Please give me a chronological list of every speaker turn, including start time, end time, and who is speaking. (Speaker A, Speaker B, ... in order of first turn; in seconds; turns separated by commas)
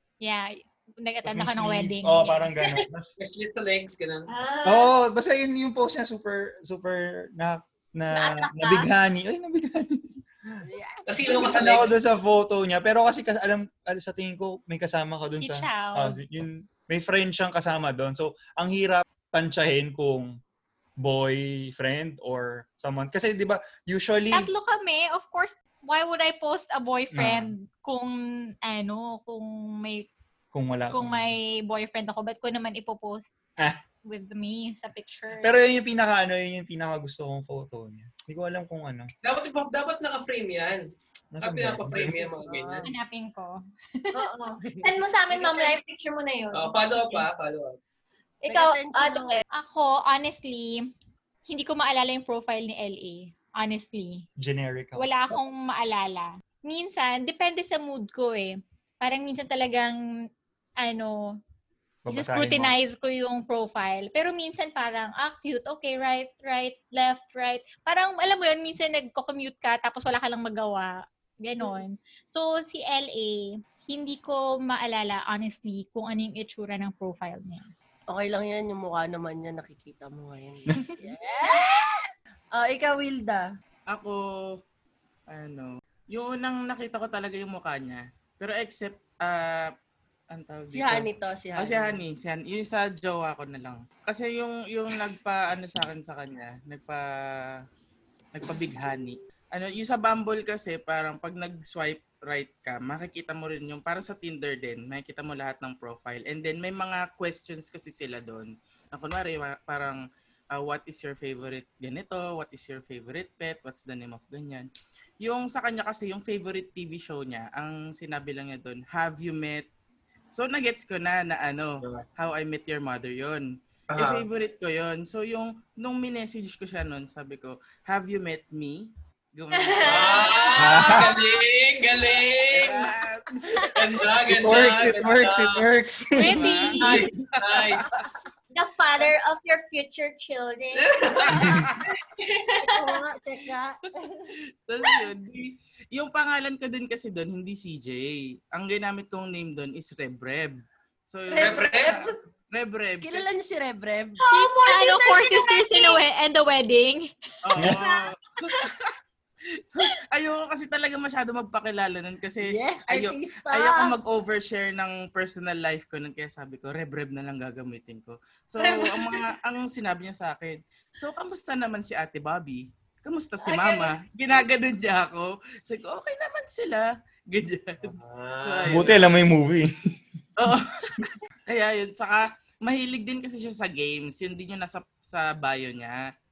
Speaker A: 0.2-2.5, Speaker B: 1.2-3.1, Speaker C: 3.2-4.3, Speaker D: 4.3-4.9, Speaker B: 4.6-10.6, Speaker D: 8.1-8.9, Speaker E: 10.6-11.4, Speaker C: 11.1-12.0, Speaker B: 11.2-20.3, Speaker A: 15.4-16.2, Speaker B: 21.0-24.5, Speaker A: 24.3-30.1, Speaker B: 27.1-27.5, Speaker B: 30.5-31.4, Speaker A: 30.9-33.3, Speaker A: 34.0-35.6, Speaker B: 35.4-39.1, Speaker C: 39.2-40.8, Speaker B: 41.3-42.3, Speaker C: 41.4-42.9, Speaker E: 42.4-42.9, Speaker A: 42.8-44.3, Speaker D: 44.1-47.2, Speaker E: 45.3-45.7, Speaker C: 46.5-47.8, Speaker D: 48.4-49.4, Speaker E: 48.5-49.4, Speaker A: 49.5-50.9, Speaker A: 51.5-54.2, Speaker B: 54.4-55.1, Speaker A: 55.0-60.0, Speaker A: 60.8-61.4, Speaker B: 62.0-62.7, Speaker A: 62.1-77.7, Speaker E: 78.1-83.5, Speaker F: 83.9-84.6, Speaker F: 85.3-89.7, Speaker F: 90.3-97.6, Speaker E: 90.7-92.0, Speaker F: 98.3-114.7, Speaker F: 115.2-119.7, Speaker F: 120.3-130.6, Speaker C: 123.9-124.2, Speaker D: 129.5-131.2, Speaker C: 129.8-132.9, Speaker B: 130.6-131.1, Speaker F: 132.5-134.0, Speaker C: 133.7-135.7, Speaker B: 134.3-136.5, Speaker A: 136.2-137.0, Speaker F: 136.3-138.1, Speaker C: 136.8-138.0, Speaker D: 138.5-141.4, Speaker C: 140.7-141.7, Speaker F: 141.3-141.8, Speaker D: 142.2-142.9, Speaker E: 142.6-144.2, Speaker F: 144.7-153.2, Speaker D: 151.3-152.0, Speaker C: 151.3-152.0, Speaker E: 153.0-154.2, Speaker D: 154.2-156.0, Speaker A: 154.3-157.1, Speaker F: 157.4-158.9, Speaker D: 157.7-158.7, Speaker F: 159.7-179.1, Speaker E: 162.4-163.9, Speaker D: 168.6-169.3, Speaker D: 173.4-173.9, Speaker C: 177.8-179.0, Speaker B: 178.7-179.9, Speaker F: 180.4-186.1